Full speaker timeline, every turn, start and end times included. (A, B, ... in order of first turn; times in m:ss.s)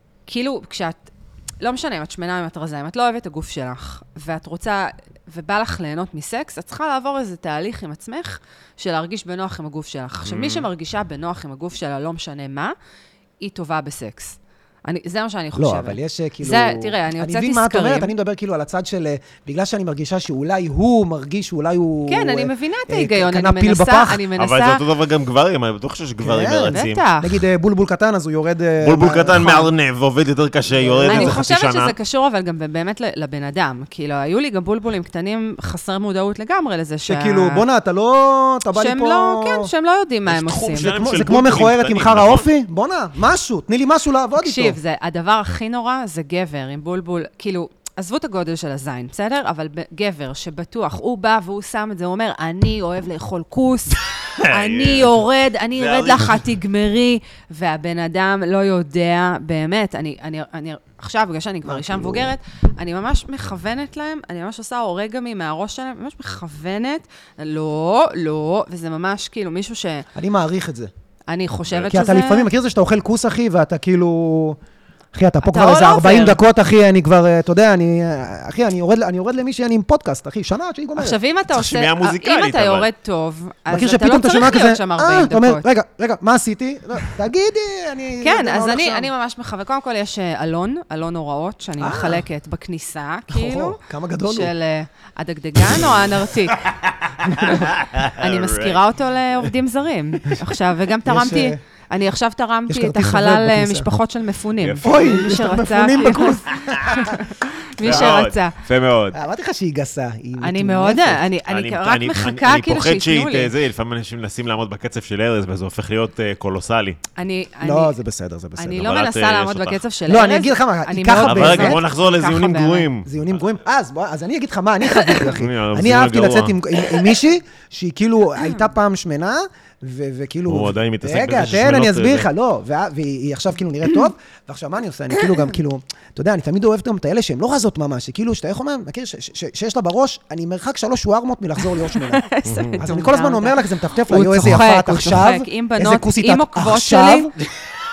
0:00.3-0:01.1 A
0:01.6-0:12.7 A
0:10.2-0:10.7 B
0:13.4-0:18.1 A
0:15.6-0:24.3 C
0:22.1-0:24.8 A
0:24.4-0:27.0 B
0:26.2-0:29.5 C
0:26.7-0:27.3 A
0:28.8-0:31.9 B
0:29.3-0:29.7 A
0:30.7-0:31.4 C
0:31.1-0:37.6 A
0:37.0-0:39.7 C
0:38.7-0:41.0 A
0:40.3-0:42.5 B
0:40.5-0:44.8 C
0:44.4-1:10.1 A
0:54.2-0:56.4 B
1:01.6-1:02.3 C
1:10.1-1:10.9 C
1:11.3-1:12.5 A
1:11.7-1:12.0 B
1:11.9-1:14.6 C
1:15.1-1:21.2 C
1:15.4-1:16.4 A
1:21.0-1:25.6 A
1:21.5-1:22.9 B
1:23.7-1:29.1 C
1:28.2-1:36.6 A
1:31.8-1:32.2 C
1:33.3-1:34.5 C
1:36.6-1:38.8 B
1:37.2-1:37.6 C
1:37.2-1:48.6 A
1:41.0-1:41.6 C
1:42.7-1:43.9 C
1:44.6-1:44.8 B
1:44.8-1:47.2 C
1:46.5-1:46.8 B
1:47.8-1:49.2 B
1:47.8-1:48.1 C
1:49.1-1:51.2 C
1:50.4-1:53.5 A
1:51.5-1:57.0 B
1:57.2-1:57.9 A
1:57.6-1:58.8 C
1:58.6-2:02.9 A
1:58.8-1:59.8 B
2:00.1-2:01.8 C
2:01.2-2:03.4 B
2:03.0-2:22.3 C
2:05.2-2:06.6 B
2:08.4-2:08.7 A
2:10.5-2:12.3 B
2:21.9-2:27.3 A
2:22.4-2:22.8 B
2:22.8-2:27.3 C